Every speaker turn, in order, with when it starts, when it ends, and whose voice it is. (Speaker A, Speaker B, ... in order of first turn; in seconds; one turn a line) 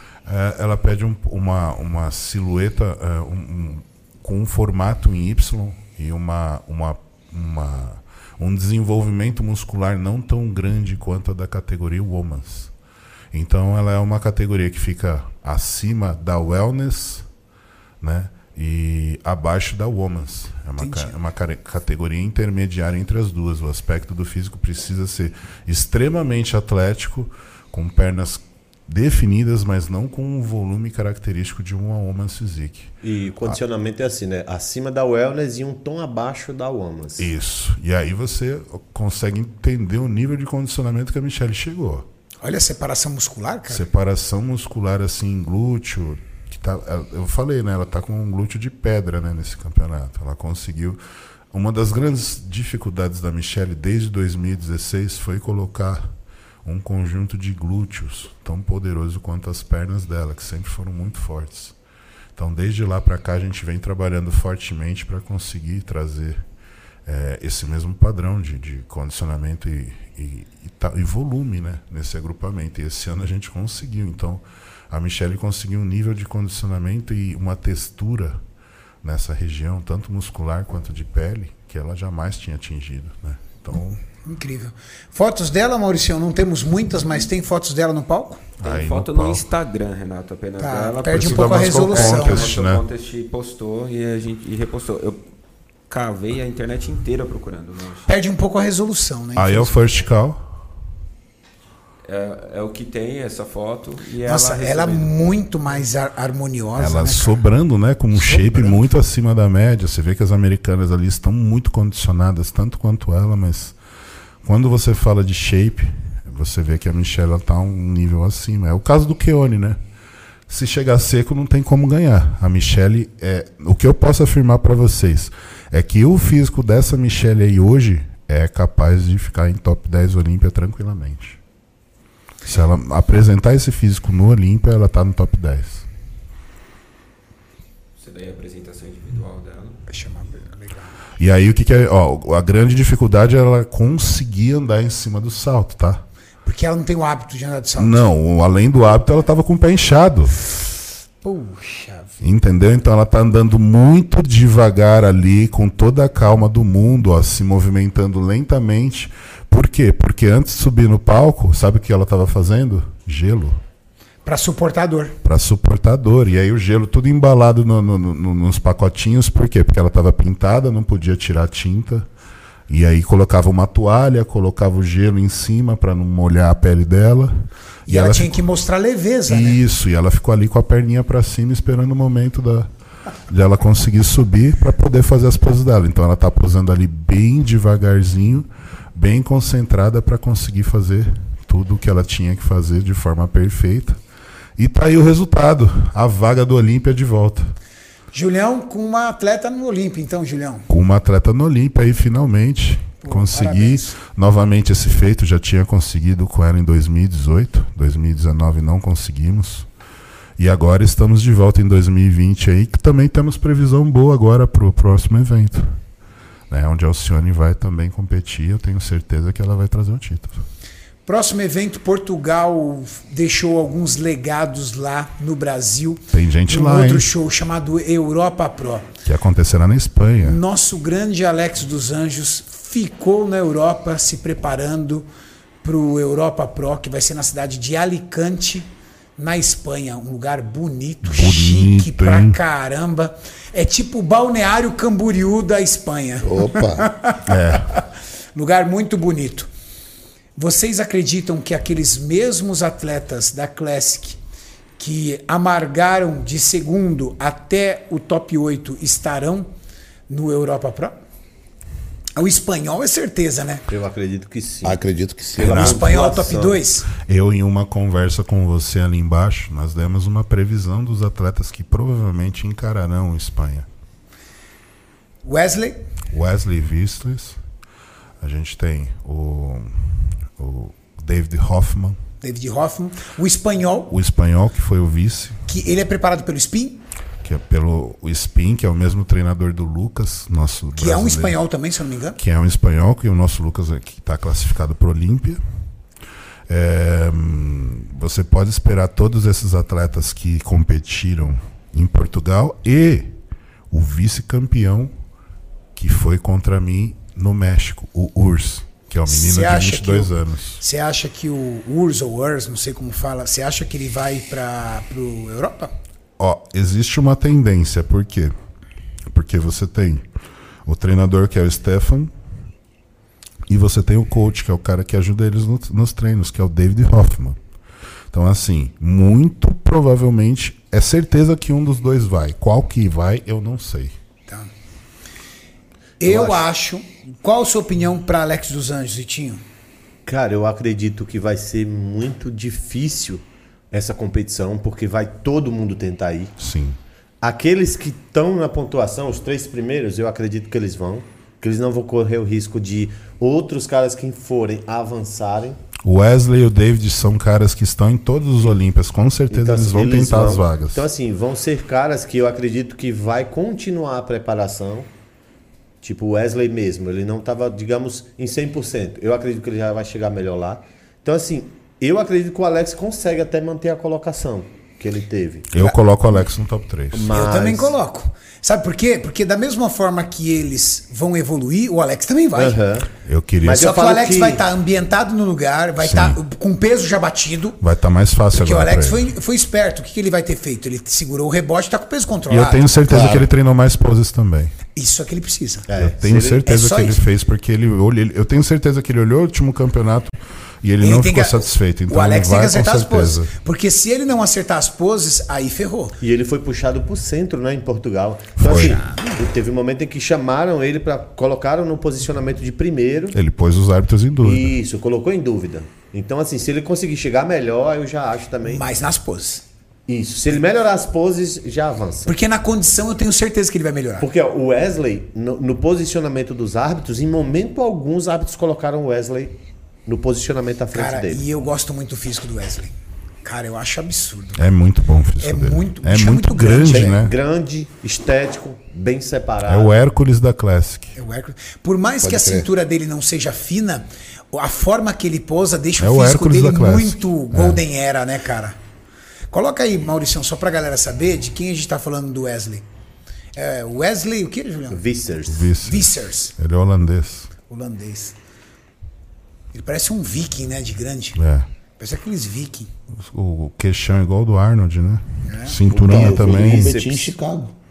Speaker A: 0.2-12.7
Speaker A: 13.3-17.2
Speaker A: 18.0-32.9
Speaker B: 20.8-21.2
Speaker C: 33.0-37.3
Speaker A: 37.2-42.0
Speaker B: 42.4-43.8
Speaker A: 43.7-51.0
Speaker A: 51.5-56.1
Speaker A: 56.6-61.7
Speaker A: 62.4-66.4
Speaker A: 67.0-78.4
Speaker A: 79.0-84.0
Speaker B: 84.2-88.4
Speaker A: 88.6-89.5
Speaker D: 88.6-95.2
Speaker B: 90.6-92.6
Speaker A: 91.1-92.8
Speaker D: 95.9-98.1
Speaker B: 98.1-99.7
Speaker A: 99.3-100.5
Speaker D: 102.0-105.3
Speaker B: 104.2-107.4
Speaker A: 106.8-113.8
Speaker B: 108.1-108.8
Speaker A: 114.4-119.8
Speaker A: 120.5-131.4
Speaker A: 132.4-135.8
Speaker D: 137.9-139.8
Speaker B: 139.9-140.9
Speaker A: 141.2-146.0
Speaker B: 146.4-148.1
Speaker A: 147.8-150.4
Speaker B: 151.2-152.2
Speaker A: 152.2-163.6
Speaker B: 164.2-165.2
Speaker A: 165.2-172.1
Speaker A: 172.7-178.4
Speaker B: 177.9-179.6
Speaker A: 179.3-182.7
Speaker A: 183.3-194.0
Speaker A: 194.6-197.5
Speaker B: 198.1-200.7
Speaker A: 200.7-209.7
Speaker B: 203.0-203.9
Speaker A: 210.4-215.8
Speaker A: 216.5-220.4
Speaker B: 221.1-228.9
Speaker A: 226.1-227.1
Speaker A: 229.0-230.4
Speaker B: 230.2-235.1
Speaker B: 235.6-247.8
Speaker A: 241.0-242.4
Speaker E: 246.2-246.9
Speaker A: 247.2-247.7
Speaker B: 248.3-249.5
Speaker B: 250.3-254.2
Speaker B: 254.8-259.5
Speaker B: 260.1-261.0
Speaker B: 262.1-263.7
Speaker C: 263.7-264.8
Speaker E: 264.6-265.8
Speaker C: 265.3-266.6
Speaker B: 265.4-266.9
Speaker A: 266.9-273.7
Speaker B: 275.2-275.8
Speaker A: 276.1-277.4
Speaker A: 278.2-282.0
Speaker B: 282.2-283.9
Speaker A: 283.9-285.4
Speaker B: 285.5-286.8
Speaker A: 287.2-291.4
Speaker B: 290.8-292.2
Speaker A: 292.2-295.4
Speaker A: 296.5-303.1
Speaker A: 303.7-304.9
Speaker A: 305.7-310.6
Speaker B: 309.1-315.7
Speaker A: 316.2-318.3
Speaker A: 319.1-320.1
Speaker A: 320.6-322.1
Speaker A: 323.5-327.4
Speaker A: 328.1-333.9
Speaker B: 336.0-339.4
Speaker C: 336.0-336.4
Speaker C: 340.1-346.4
Speaker A: 346.4-346.8
Speaker C: 347.2-355.6
Speaker A: 355.8-360.8
Speaker C: 359.3-364.9
Speaker C: 365.8-375.5
Speaker A: 375.5-377.1
Speaker C: 376.9-377.7
Speaker B: 377.1-382.6
Speaker C: 382.3-382.9
Speaker A: 383.0-383.6
Speaker C: 383.4-384.4
Speaker B: 383.5-387.6
Speaker A: 385.8-386.2
Speaker A: 387.6-389.1
Speaker B: 388.3-392.7
Speaker A: 392.3-394.5
Speaker E: 392.9-393.3
Speaker B: 394.7-395.7
Speaker C: 395.7-396.5
Speaker A: 395.8-403.3
Speaker B: 396.4-397.0
Speaker B: 400.8-405.9
Speaker C: 406.0-413.2
Speaker A: 408.4-408.8
Speaker B: 408.5-409.2
Speaker A: 413.1-414.5
Speaker C: 414.2-418.6
Speaker B: 418.4-419.4
Speaker C: 419.9-422.1
Speaker B: 422.1-424.1
Speaker C: 424.0-431.2
Speaker B: 430.7-432.7
Speaker B: 433.2-434.4
Speaker A: 434.4-437.1
Speaker B: 435.2-437.0
Speaker C: 436.6-439.7
Speaker A: 439.4-440.9
Speaker B: 440.9-448.6
Speaker E: 442.0-442.5
Speaker A: 445.8-447.6
Speaker B: 449.3-452.6
Speaker B: 453.3-454.8
Speaker C: 454.7-455.5
Speaker A: 455.3-457.3
Speaker B: 455.6-456.3
Speaker B: 457.5-458.1
Speaker B: 459.5-461.2
Speaker A: 461.2-461.5
Speaker B: 461.8-462.7
Speaker A: 462.9-466.8
Speaker B: 465.2-465.6
Speaker C: 465.7-467.1
Speaker E: 465.8-467.5